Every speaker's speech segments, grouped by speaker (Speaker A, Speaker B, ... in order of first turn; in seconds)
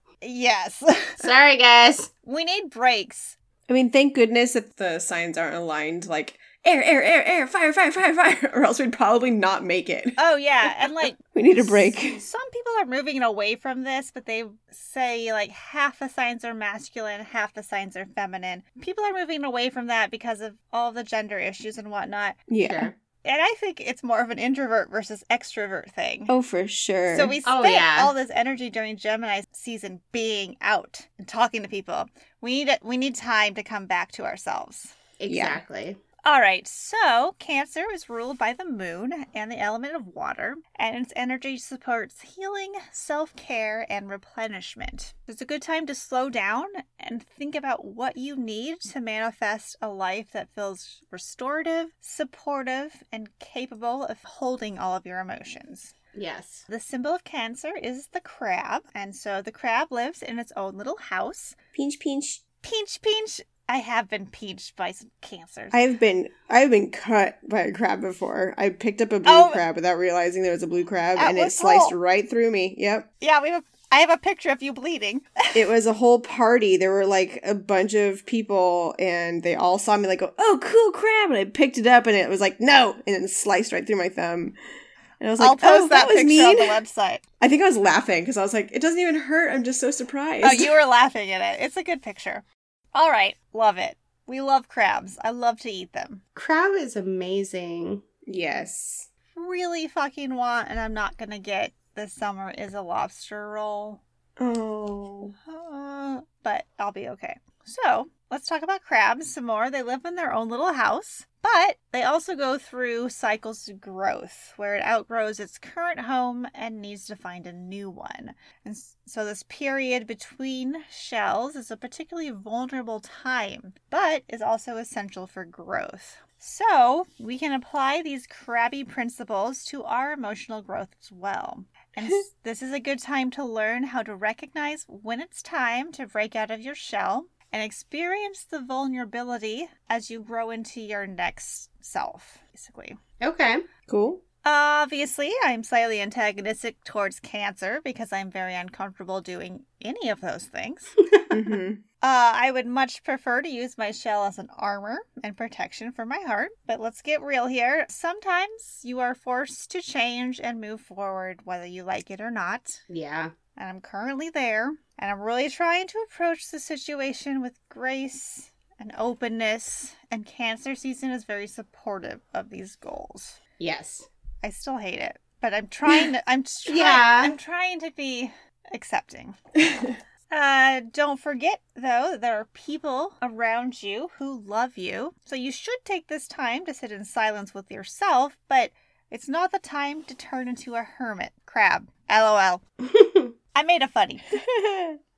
Speaker A: 0.2-1.2, 2.3-3.4, 10.2-22.4, 23.2-26.3, 27.1-35.0, 36.2-55.9, 56.7-61.6, 62.6-65.8, 69.2-69.6, 71.2-72.0, 73.2-75.6, 85.4-87.2, 90.4-96.2, 99.3-104.0, 105.5-143.0, 144.4-150.9, 152.0-162.8, 163.6-173.4, 174.4-179.4, 180.3-192.6, 193.6-194.3
Speaker B: 1.2-2.1, 22.6-22.9, 27.4-28.1, 35.2-36.0, 56.1-56.7, 96.3-98.0, 143.2-143.6, 162.9-163.3, 173.6-174.1, 176.7-177.4, 192.9-193.3
Speaker C: 3.7-12.2, 22.5-22.9, 26.3-27.4, 35.3-35.6, 61.7-62.4, 65.7-73.1, 75.5-84.5, 85.2-86.8, 87.4-90.8, 98.3-99.1, 104.4-105.3, 143.9-144.2, 151.3-151.8, 179.6-180.0, 194.3-195.0